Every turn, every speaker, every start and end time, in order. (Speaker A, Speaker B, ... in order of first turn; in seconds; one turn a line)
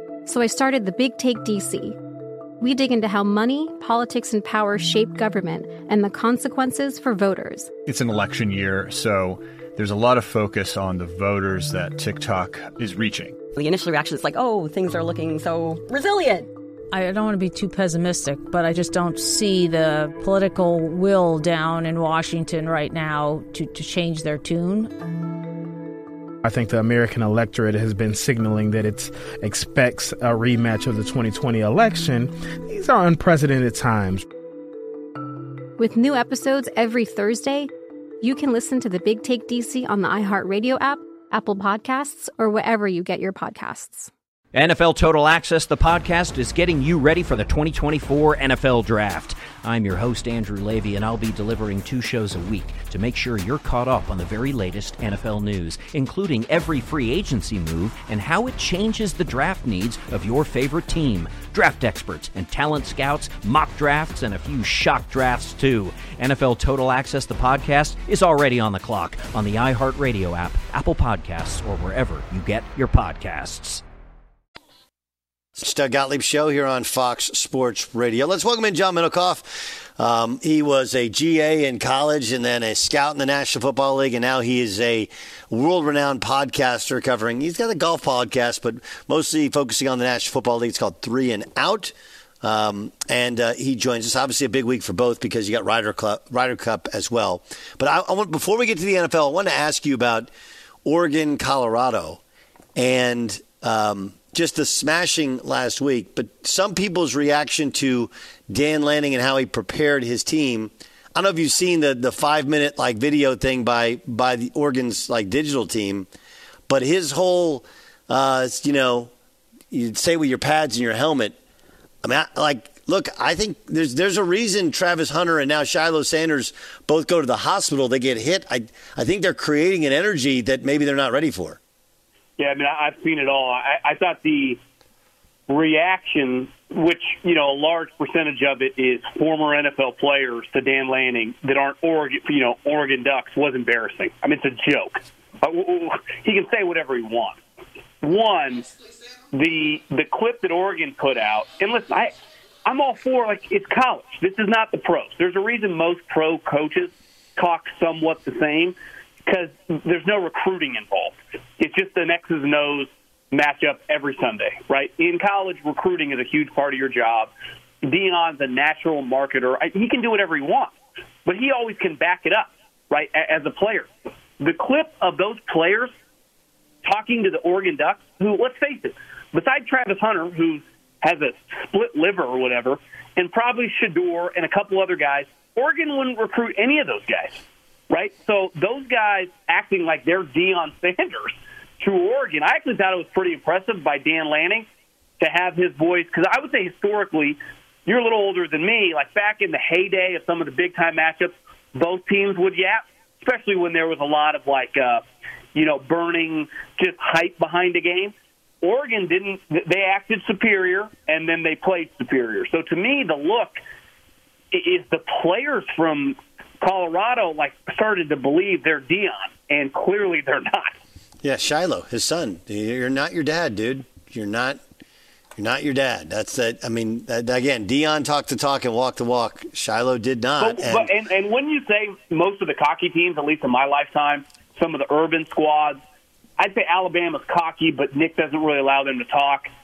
Speaker A: 0.2-2.0
Speaker A: 2.6-7.7
Speaker B: 7.9-13.3
Speaker C: 13.5-16.5
Speaker D: 16.9-24.9
Speaker E: 26.4-34.2
Speaker A: 35.8-37.7
Speaker A: 38.2-44.1
Speaker F: 44.5-73.8
Speaker G: 75.5-100.3
Speaker G: 100.8-102.2
Speaker G: 102.8-116.1
Speaker G: 116.7-119.1
Speaker G: 119.7-121.4
Speaker G: 122.0-131.6
Speaker H: 132.4-134.6
Speaker H: 135.5-147.4
Speaker H: 148.0-148.7
Speaker H: 149.3-158.7
Speaker H: 159.2-167.3
Speaker H: 167.8-170.7
Speaker H: 171.2-173.9
Speaker H: 174.4-175.9
Speaker H: 176.8-194.7
Speaker H: 195.2-213.6
Speaker H: 214.5-220.7
Speaker G: 221.2-224.6
Speaker G: 225.3-230.9
Speaker H: 230.4-235.8
Speaker H: 236.4-239.5